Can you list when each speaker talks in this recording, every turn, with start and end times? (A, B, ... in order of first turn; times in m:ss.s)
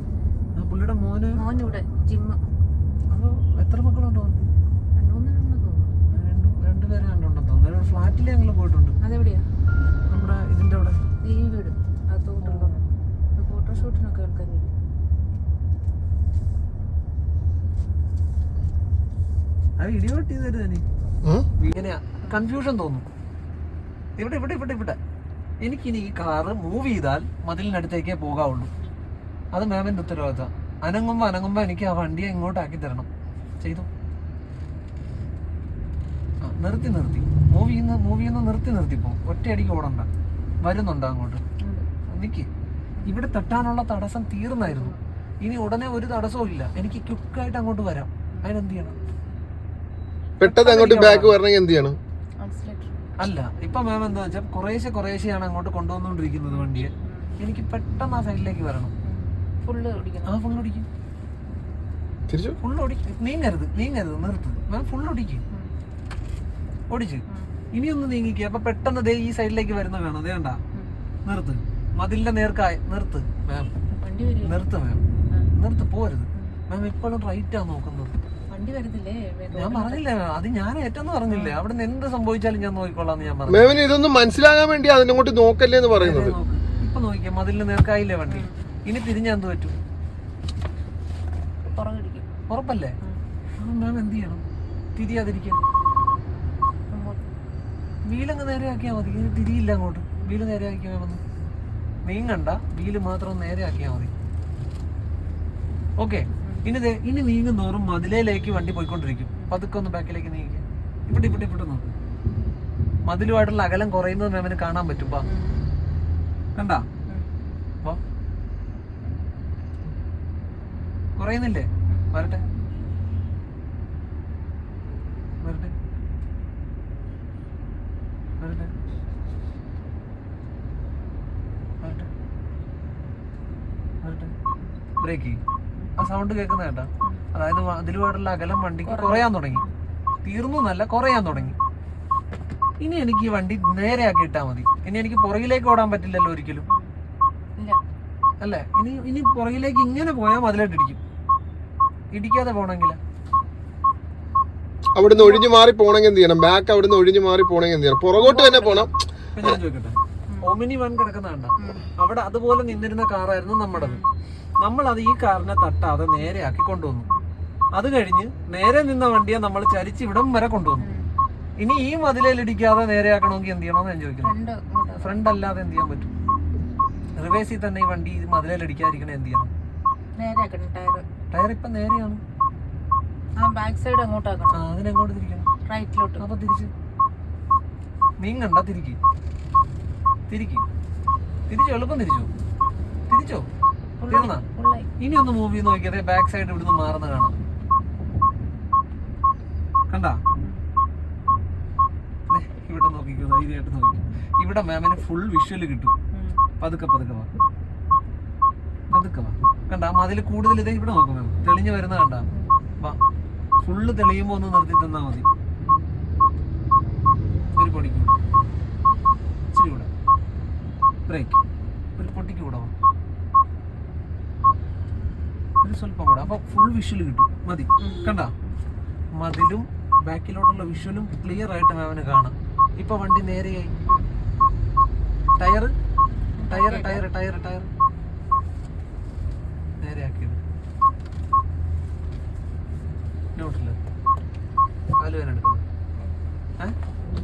0:00.6-0:01.7 A
0:01.4-0:02.4 B
0:03.1-0:04.5 A
0:05.0-0:06.0 B
0:06.1-0:09.0 A
0:09.0-0:09.4 B
0:10.1-0:11.0 A
0:11.2-0:12.8 B
0:12.4-0:12.8 A
0:13.4-0:14.7 B
0:19.8-0:20.8 A
0:21.6-0:23.1 A
0:24.2-0:25.0 A
0:25.6-0:28.7 A
0:29.5-0:33.1 A
0:33.6-0:33.9 A
0:36.4-0:40.1 A
0:40.6-0:41.4 A
0:41.6-0:41.9 B
0:42.1-0:42.5 A
0:43.1-0:49.0 A
0:44.6-0:45.0 B
0:50.4-0:52.0 C
0:50.4-0:51.4 A
0:52.4-0:53.0 B
0:53.2-0:58.9 A
0:56.4-0:57.4 B
0:59.0-1:00.6 B
1:00.3-1:00.9 A
1:02.3-1:02.6 C
1:02.6-1:05.4 A
1:06.9-1:10.6 A
1:07.3-1:07.6 B
1:11.2-1:13.7 A
1:14.0-1:14.6 B
1:14.4-1:15.0 A
1:15.5-1:18.1 A
1:18.5-1:20.0 B
1:19.5-1:23.8 A
1:21.3-1:21.6 B
1:23.5-1:26.4 C
1:26.0-1:29.8 A
1:28.3-1:28.7 B
1:31.7-1:32.3 B
1:32.5-1:33.0 A
1:33.6-1:34.4 A
1:35.0-1:35.6 A
1:36.9-1:37.2 B
1:38.1-1:41.2 A
1:42.0-1:44.1 A
1:46.0-1:52.0 A
1:46.3-1:46.6 B
1:53.0-1:55.2 A
1:55.2-1:55.7 B
1:56.6-1:56.9 A
2:01.2-2:02.4 A
2:05.4-2:05.8 A
2:08.4-2:08.7 A
2:11.8-2:12.1 A
2:14.0-2:14.3 A
2:15.0-2:15.4 A
2:16.0-2:19.6 A
2:18.8-2:19.7 B
2:20.2-2:21.6 A
2:22.8-2:26.7 A
2:28.4-2:31.0 A
2:32.1-2:33.0 A
2:35.0-2:38.9 C
2:35.1-2:35.5 B
2:38.2-2:44.0 A
2:41.6-2:41.9 B
2:43.7-2:44.1 B
2:44.6-2:47.1 A
2:47.7-2:50.9 A
2:50.8-2:51.1 B
2:51.6-2:54.4 A
2:54.2-2:55.2 B
2:54.9-2:56.1 A
2:57.2-2:59.5 A
3:00.2-3:01.0 B
3:01.3-3:02.2 A
3:03.4-3:04.6 B
3:04.5-3:05.5 A
3:05.7-3:06.2 B
3:06.2-3:06.7 A
3:08.2-3:09.0 A
3:10.3-3:10.6 A
3:11.5-3:12.3 A
3:13.1-3:13.5 A
3:14.0-3:14.9 B
3:14.1-3:14.4 A
3:15.0-3:17.3 A
3:19.9-3:20.2 A
3:22.3-3:25.9 A
3:26.1-3:26.4 B
3:26.6-3:27.3 A
3:28.9-3:32.3 A
3:33.6-3:35.3 A
3:37.6-3:38.2 A
3:39.5-3:39.9 A
3:41.1-3:41.4 A
3:42.0-3:42.7 A
3:45.6-3:48.3 A
3:47.8-3:48.3 B
3:49.2-3:53.7 A
3:53.8-3:54.1 B
3:55.4-3:55.7 A
3:56.4-3:57.1 B
3:56.5-3:57.7 A
3:59.8-4:00.4 A
4:03.4-4:03.8 A
4:05.0-4:05.6 A